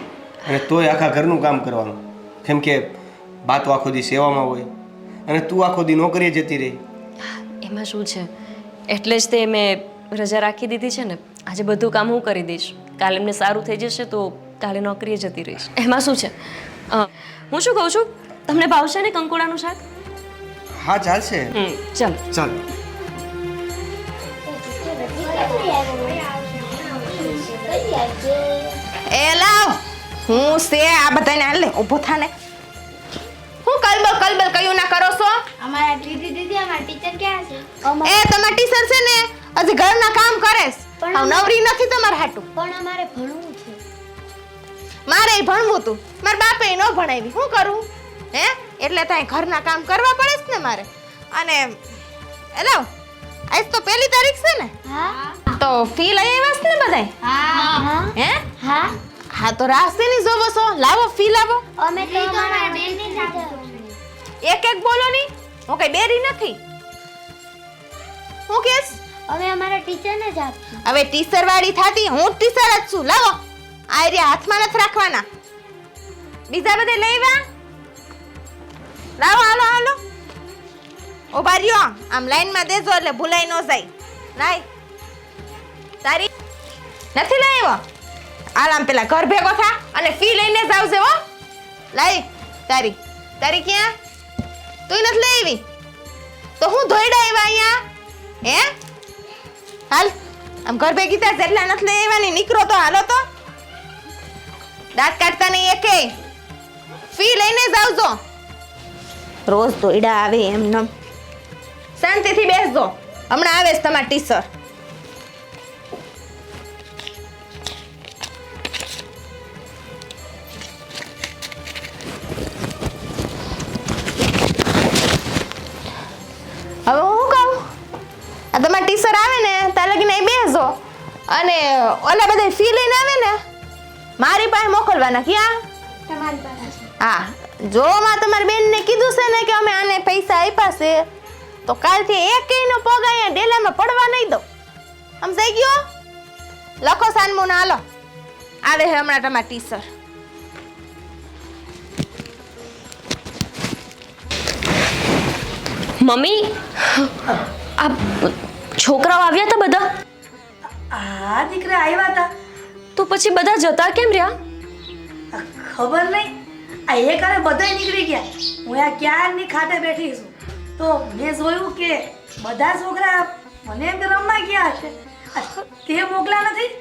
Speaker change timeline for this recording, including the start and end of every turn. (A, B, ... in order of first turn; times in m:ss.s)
0:00.5-0:02.9 A
0:03.5-0:04.7 A
0:05.3-0:06.8 A
0:07.2-0:08.3 B
0:08.9-0:16.4 B
0:16.9-0:19.8 B
0:20.8-0:21.5 A
0:21.5-0:22.2 B
0:24.5-0:28.8 C
0:29.1-0:32.3 D
0:33.6-0:35.5 D
0:35.6-0:38.4 C
0:38.0-0:42.5 D
0:41.0-0:41.5 C
0:42.6-0:43.8 C
0:45.1-0:51.8 D
0:52.6-0:52.9 D
0:53.5-0:54.7 D
0:54.9-0:55.2 C
0:55.5-0:57.1 D
0:57.3-0:59.0 C
0:58.1-0:58.5 D
0:59.3-1:01.6 D
1:01.8-1:04.0 C
1:04.4-1:06.6 D
1:08.5-1:09.0 D
1:09.2-1:10.8 C
1:10.8-1:15.3 D
1:16.5-1:17.4 D
1:19.2-1:20.0 D
1:21.3-1:24.7 D
1:26.0-1:26.3 D
1:27.2-1:27.8 D
1:28.6-1:31.2 D
1:31.9-1:33.9 D
1:34.9-1:35.6 D
1:36.6-1:37.8 D
1:40.7-1:43.2 D
1:45.0-1:46.2 D
1:47.1-1:48.2 D
1:49.5-1:50.9 D
1:52.0-1:54.5 D
2:06.9-2:07.6 D
2:08.5-2:10.8 D
2:11.3-2:13.4 D
2:14.2-2:15.6 D
2:16.1-2:16.8 C
2:17.0-2:21.1 D
2:21.7-2:24.4 D
2:25.2-2:25.8 D
2:26.8-2:27.8 D
2:28.6-2:29.9 D
2:36.0-2:37.2 B
2:37.8-2:39.9 B
2:40.9-2:42.3 E
2:43.0-2:44.3 B
2:45.3-2:46.3 E
2:46.9-2:56.7 E